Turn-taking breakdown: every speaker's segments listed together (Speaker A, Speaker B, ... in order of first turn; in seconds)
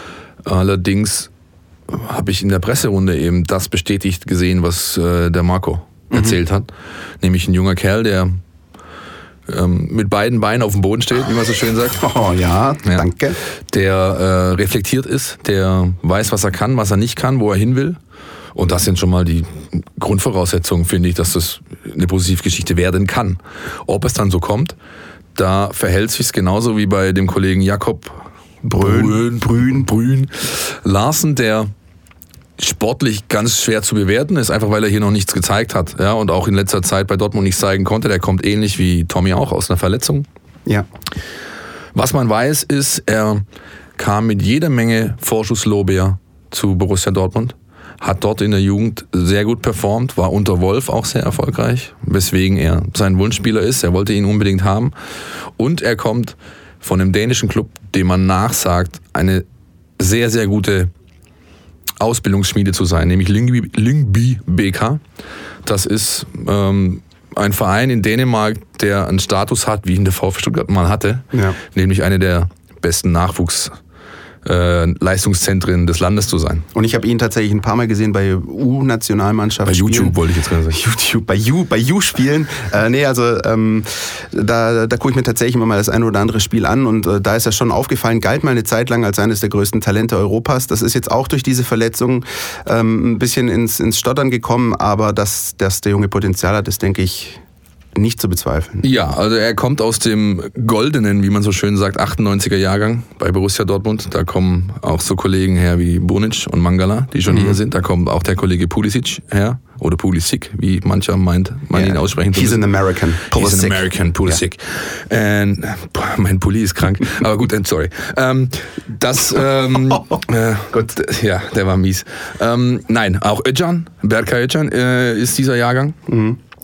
Speaker A: 0.4-1.3, 1.9-6.7, 7.2-8.4, 9.5-12.0, 13.7-18.0, 18.5-24.7, 25.3-31.7, 32.6-40.2, 41.9-43.4, 44.0-54.9, 55.6-59.4, 60.0-60.9, 62.0-65.0, 65.6-73.7, 74.4-76.7, 79.6-80.8, 98.8-112.7, 113.3-126.0
Speaker B: 6.1-6.4, 12.0-13.4, 28.6-29.9, 76.7-80.2, 80.7-97.4, 97.9-98.8, 107.3-107.6, 111.7-114.4, 126.1-126.4